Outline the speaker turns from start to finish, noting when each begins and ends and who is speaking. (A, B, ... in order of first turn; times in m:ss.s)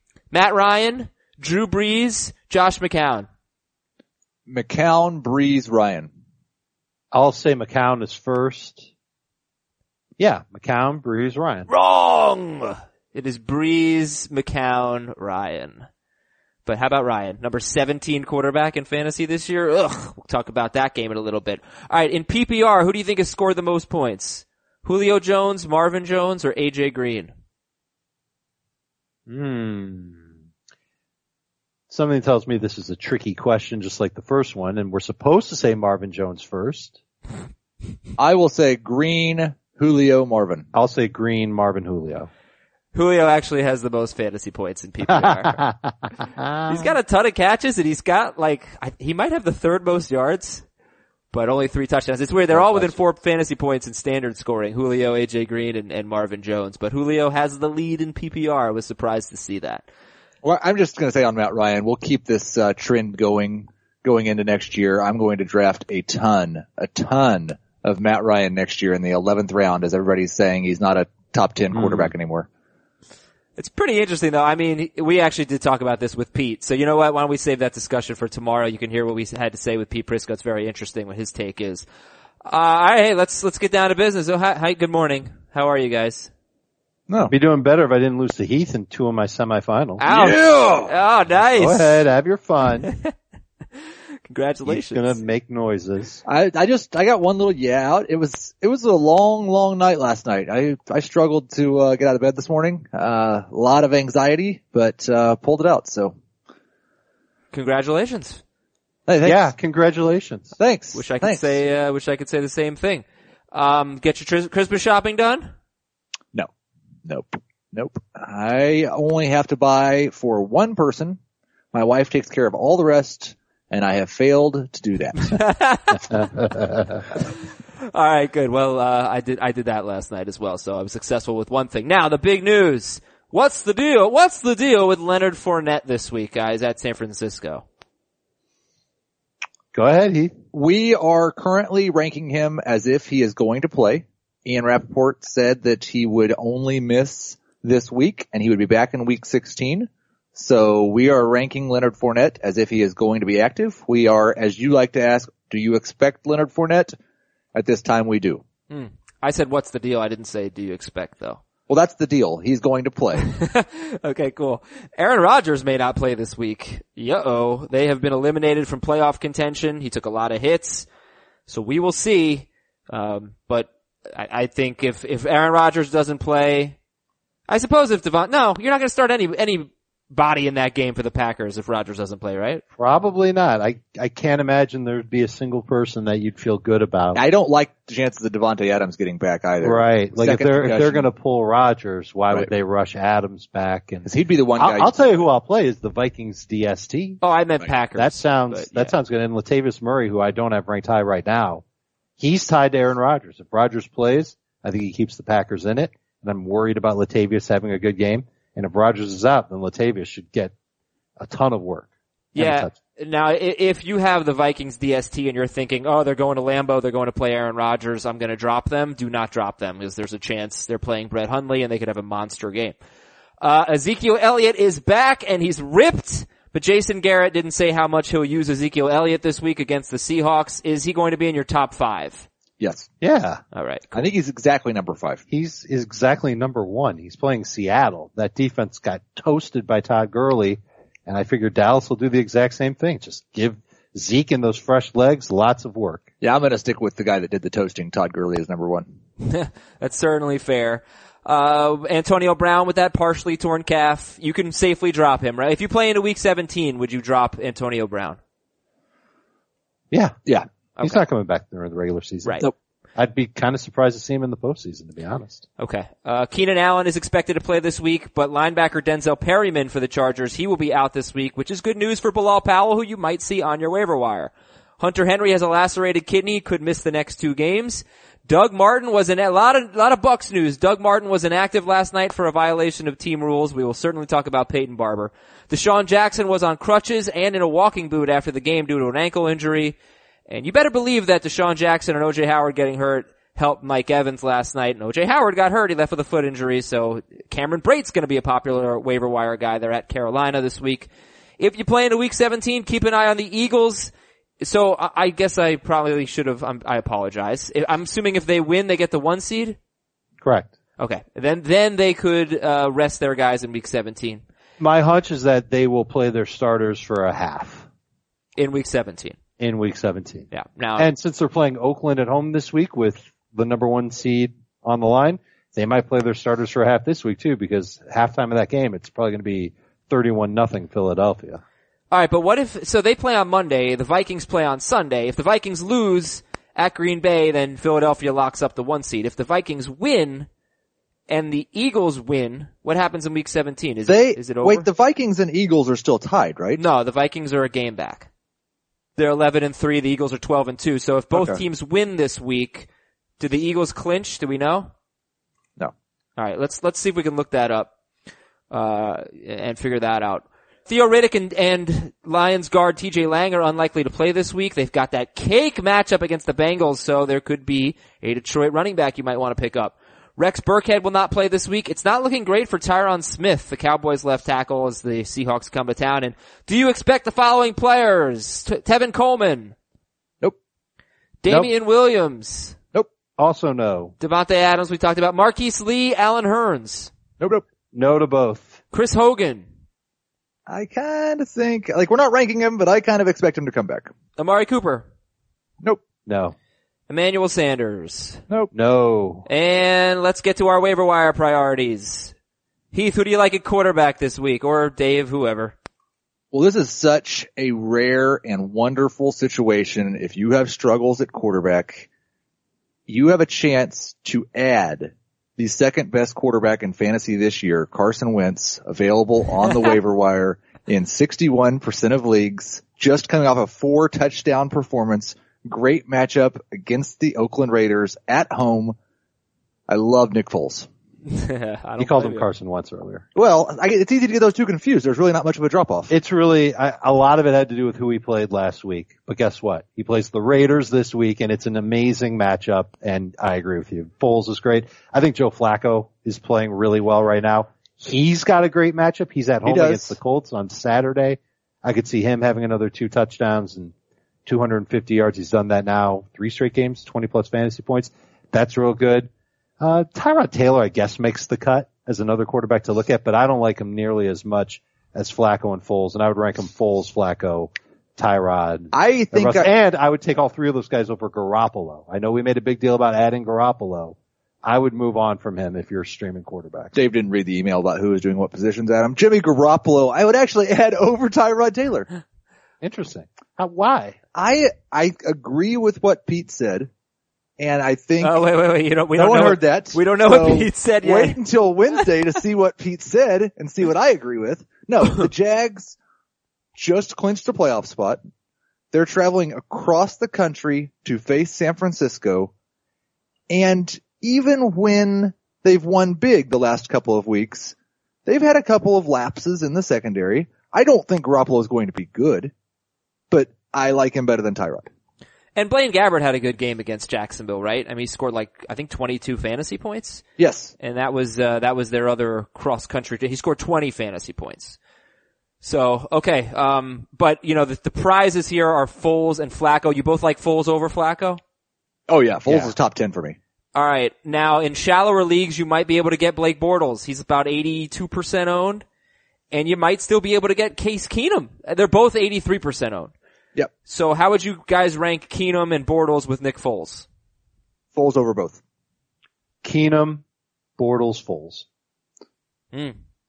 0:00.3-0:03.3 A
0:04.5-0:06.1 B
0:07.1-0:08.9 C
0:10.2-0:11.7 C
0:11.7-0:15.9 A
0:16.6-0:27.3 A
0:29.3-0:30.3 C
0:31.9-0:37.0 C
0:38.2-0:40.7 B
0:40.7-0:42.3 C
0:42.9-0:45.6 A
0:45.1-0:46.9 C
0:46.7-0:50.6 A
0:51.3-0:59.8 A
0:52.5-0:53.0 C
1:00.4-1:12.5 B
1:11.7-1:12.1 C
1:13.6-1:21.8 A
1:22.4-1:26.3 A
1:27.3-1:30.0 C
1:30.0-1:32.0 A
1:30.1-1:30.9 B
1:31.3-1:32.9 C
1:34.2-1:35.2 A
1:34.6-1:36.2 C
1:36.2-1:46.1 B
1:47.5-1:48.4 A
1:49.1-1:49.4 B
1:49.2-1:50.6 C
1:50.6-1:51.6 B
1:50.9-1:55.5 A
1:57.0-2:01.2 B
2:01.7-2:05.4 B
2:05.3-2:06.1 A
2:07.8-2:17.6 A
2:19.7-2:20.3 C
2:20.5-2:37.0 B
2:37.5-2:38.4 B
2:38.7-2:41.4 A
2:41.7-2:43.3 B
2:43.2-2:50.8 A
2:51.5-2:56.8 A
2:57.5-3:02.6 A
3:02.8-3:07.2 C
3:07.1-3:11.1 B
3:09.6-3:17.2 C
3:14.0-3:15.2 B
3:17.2-3:18.9 A
3:18.0-3:21.6 C
3:22.2-3:30.5 C
3:31.2-3:32.7 C
3:32.3-3:42.7 A
3:43.4-3:52.3 A
3:52.6-3:52.9 B
3:53.0-3:53.4 C
3:53.5-3:54.1 A
3:53.9-3:55.2 B
3:55.3-4:06.0 C
4:06.2-4:08.8 B
4:09.2-4:18.2 A
4:19.9-4:20.2 C
4:20.8-4:25.4 C
4:22.2-4:22.5 A
4:25.6-4:49.8 A
4:50.3-5:09.6 A
5:10.2-5:10.5 C
5:10.8-5:14.2 A
5:14.6-5:17.6 C
5:18.4-5:19.2 A
5:19.4-5:31.4 C
5:20.3-5:20.9 A
5:31.9-5:40.3 A
5:41.1-5:44.7 A
5:43.9-5:46.6 B
5:46.6-5:48.1 A
5:49.0-5:52.7 A
5:51.1-5:51.4 B
5:53.2-5:54.7 A
5:56.2-5:57.7 A
5:58.5-6:19.5 A
6:21.2-6:22.6 A
6:23.2-6:23.9 C
6:24.0-6:26.9 A
6:27.7-6:28.6 C
6:28.7-6:29.4 A
6:30.5-6:33.9 B
6:34.2-6:34.8 A
6:36.0-6:36.3 C
6:36.9-6:38.2 A
6:38.5-6:39.2 C
6:39.3-6:42.1 A
6:42.7-6:45.5 A
6:46.3-6:51.9 B
6:52.9-7:08.8 B
7:09.7-7:10.7 B
7:11.0-7:12.3 A
7:11.8-7:13.0 C
7:13.1-7:15.9 B
7:15.9-7:33.7 C
7:29.4-7:30.0 B
7:34.2-7:39.1 C
7:39.6-7:56.7 C
7:48.7-7:49.5 B
7:56.7-8:01.9 B
8:02.6-8:04.0 C
8:04.1-8:06.7 B
8:07.4-8:08.2 B
8:08.0-8:11.2 A
8:09.0-8:15.8 B
8:16.5-8:18.0 B
8:18.7-8:22.3 B
8:23.3-8:27.5 B
8:28.0-8:32.3 B
8:33.1-8:34.7 B
8:35.4-8:40.0 A
8:40.2-8:40.5 B
8:40.6-8:44.6 A
8:45.4-8:51.2 A
8:51.9-8:53.2 B
8:52.3-8:52.5 C
8:53.5-8:58.6 A
8:59.3-9:02.9 A
9:03.6-9:06.8 A
9:07.7-9:08.4 B
9:09.4-9:10.0 C
9:10.6-9:11.4 C